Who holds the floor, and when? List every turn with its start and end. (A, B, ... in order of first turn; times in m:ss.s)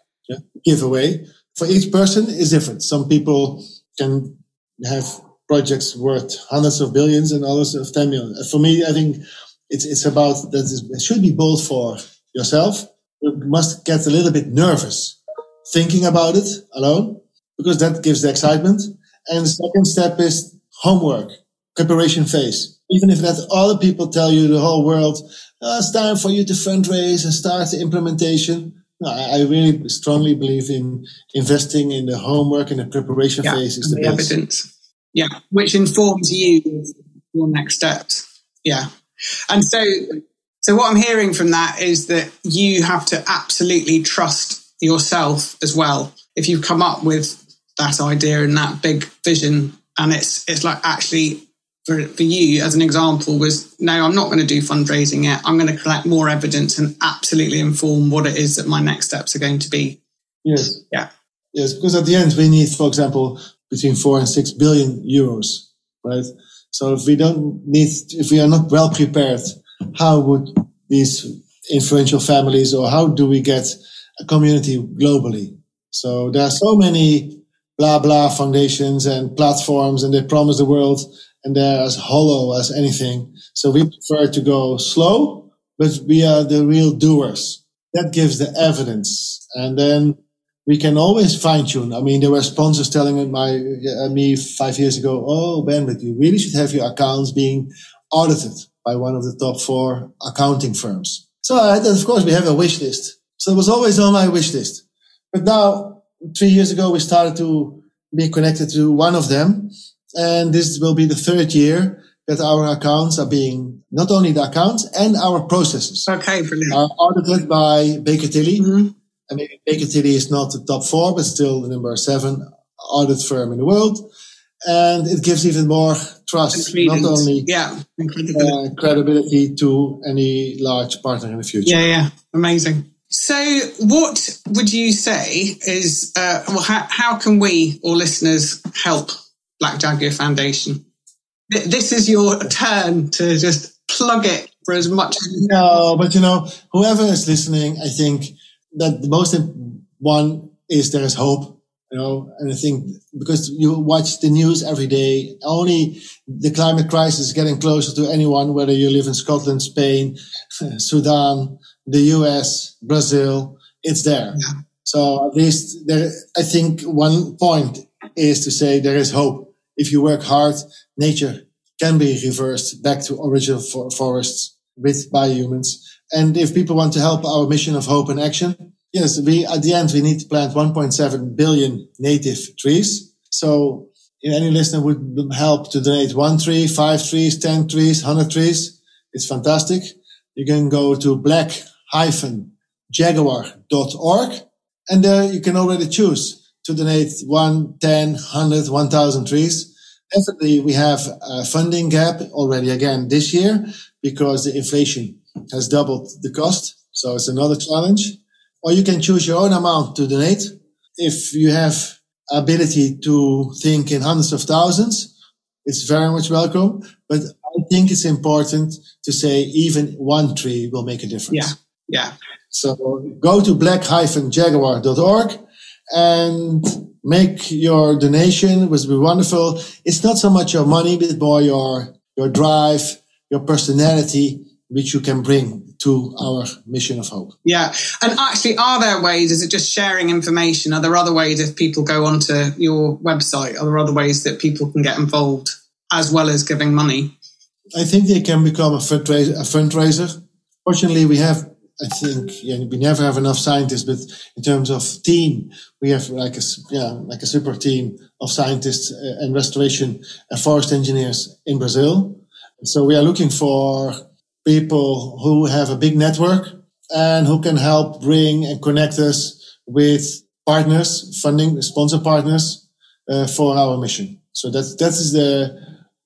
0:00.3-0:34.3 A
0:33.4-0:38.9 B
0:39.5-1:00.0 B
1:00.4-1:00.8 A
1:01.5-1:56.1 A
1:56.1-1:56.8 B
1:56.7-1:58.7 A
1:58.6-1:58.9 B
1:59.3-2:04.1 A
2:04.6-2:07.5 A
2:06.5-2:08.5 B
2:08.3-2:11.8 A
2:11.6-2:20.8 B
2:21.5-2:25.5 B
2:25.4-3:35.1 A
3:35.6-3:41.5 A
3:41.3-3:42.1 B
3:42.5-3:45.4 A
3:45.9-3:57.3 A
3:57.4-4:07.1 B
4:07.7-4:35.6 A